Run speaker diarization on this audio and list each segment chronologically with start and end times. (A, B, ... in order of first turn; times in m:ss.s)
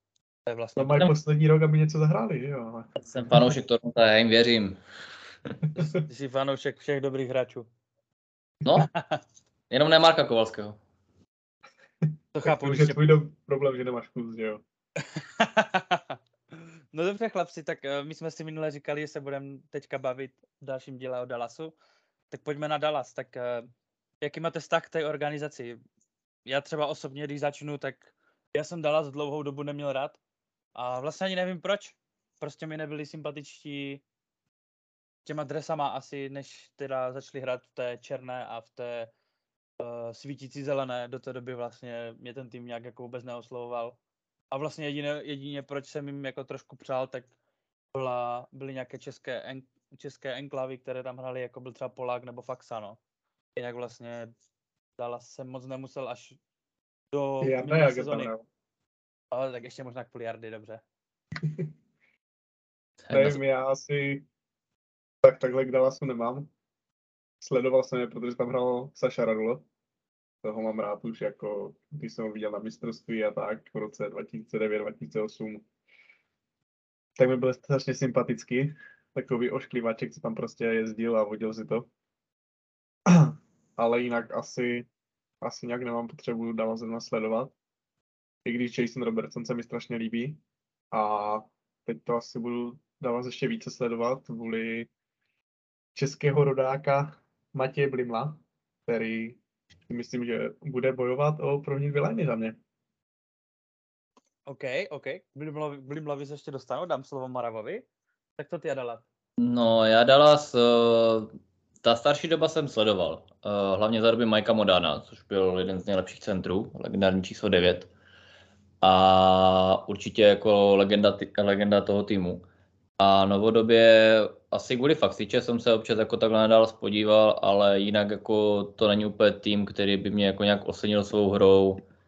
0:00.5-0:01.1 A
0:00.8-0:02.9 B
0:03.0-0:04.8 C
0:06.0-0:07.7 A
0:08.6-0:08.9 C
0:08.8-0:09.2 A
0:09.7-0:10.8 C
0:12.1-0:14.6 B
0:12.4-0:13.0 A
0:15.2-0:16.2 A
0:16.9-0:21.7 A
0:22.3-0:23.7 A
0:24.2-0:25.8 A
0:26.5-0:30.2 A
0:30.8-0:34.0 A
0:35.2-0:39.1 A
0:39.8-0:44.0 A
0:44.5-0:47.3 A
0:47.9-0:53.0 A
0:53.6-0:54.3 A
0:55.0-0:56.4 A
0:57.1-0:58.3 A
0:57.4-0:58.5 B
0:59.3-1:00.8 A
1:01.4-1:01.7 B
1:03.0-1:03.4 C
1:03.1-1:04.3 B
1:05.2-1:06.5 B
1:07.4-1:09.6 B
1:10.4-1:15.6 B
1:17.2-1:21.9 B
1:23.1-1:24.9 B
1:25.4-1:27.5 B
1:28.4-1:30.4 B
1:30.9-1:34.9 B
1:36.0-1:42.6 B
1:44.5-1:47.8 A
1:48.4-1:49.0 A
1:49.4-1:51.3 C
1:51.8-1:57.9 C
1:58.8-2:02.4 C
2:03.0-2:11.8 C